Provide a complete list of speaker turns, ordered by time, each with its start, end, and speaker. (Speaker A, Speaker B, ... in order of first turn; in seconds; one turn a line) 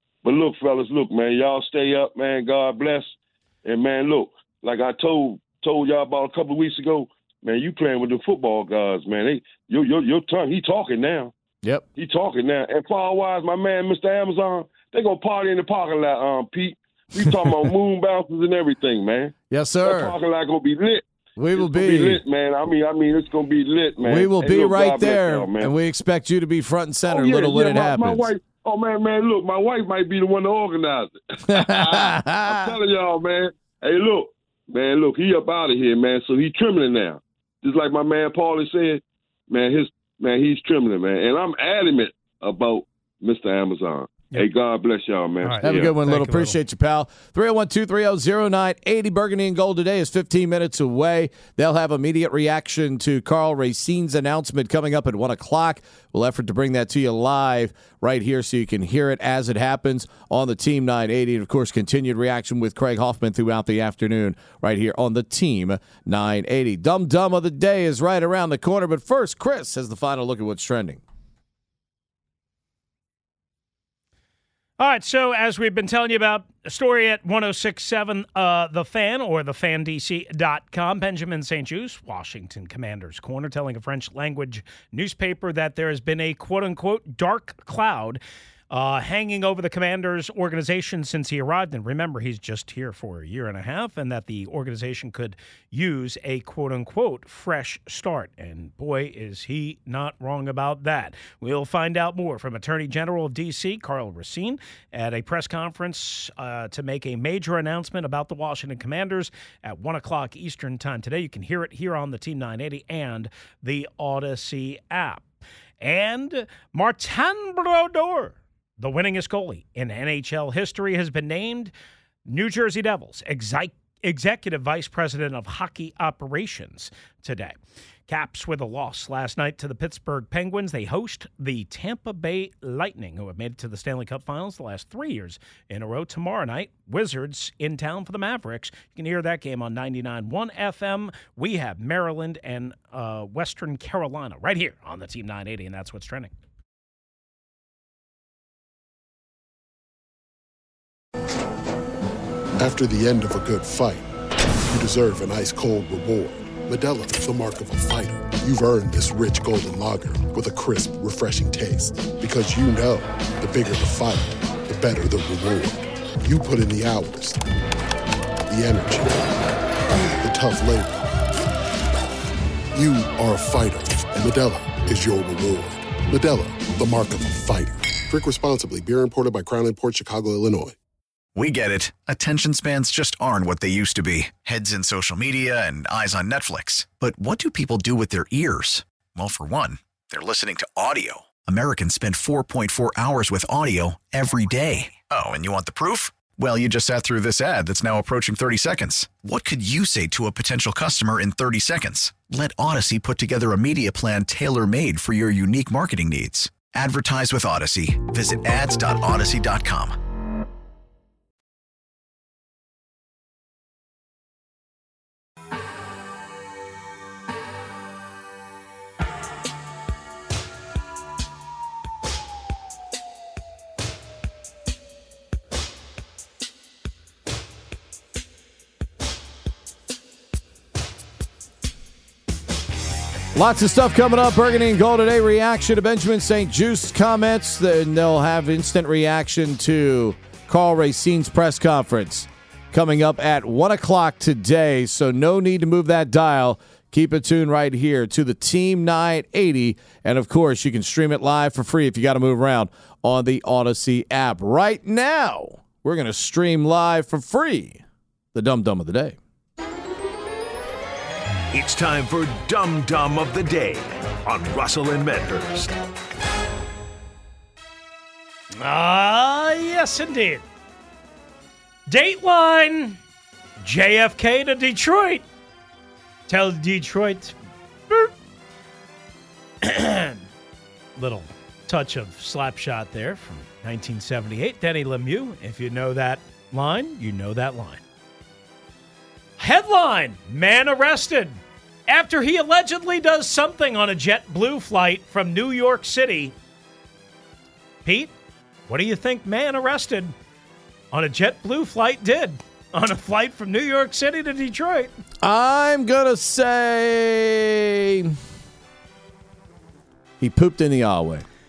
Speaker A: 0.2-11.3
Speaker A: 11.9-25.7
Speaker B: 19.5-20.1
Speaker B: 21.4-22.2
Speaker B: 24.0-28.3
Speaker A: 27.1-45.9
Speaker B: 31.4-32.8
Speaker C: 45.4-46.6
Speaker B: 45.6-71.0
Speaker C: 74.8-115.2
Speaker C: 115.8-121.7
Speaker C: 122.2-127.5
Speaker C: 128.1-146.3
Speaker D: 152.6-154.1
Speaker D: 154.7-167.4
Speaker D: 168.5-169.4
Speaker D: 170.2-171.1
Speaker D: 172.7-180.8
Speaker E: 181.3-210.0
Speaker B: 233.3-257.8
Speaker B: 258.3-259.2
Speaker F: 261.5-265.7
Speaker C: 268.6-270.4
Speaker C: 271.9-273.0
Speaker C: 273.6-275.2
Speaker C: 276.3-277.3
Speaker C: 279.6-280.2
Speaker C: 281.0-287.8
Speaker C: 289.4-296.3
Speaker C: 297.8-298.1
Speaker C: 298.7-300.1
Speaker C: 300.9-304.9
Speaker B: 305.2-308.2
Speaker B: 310.2-311.2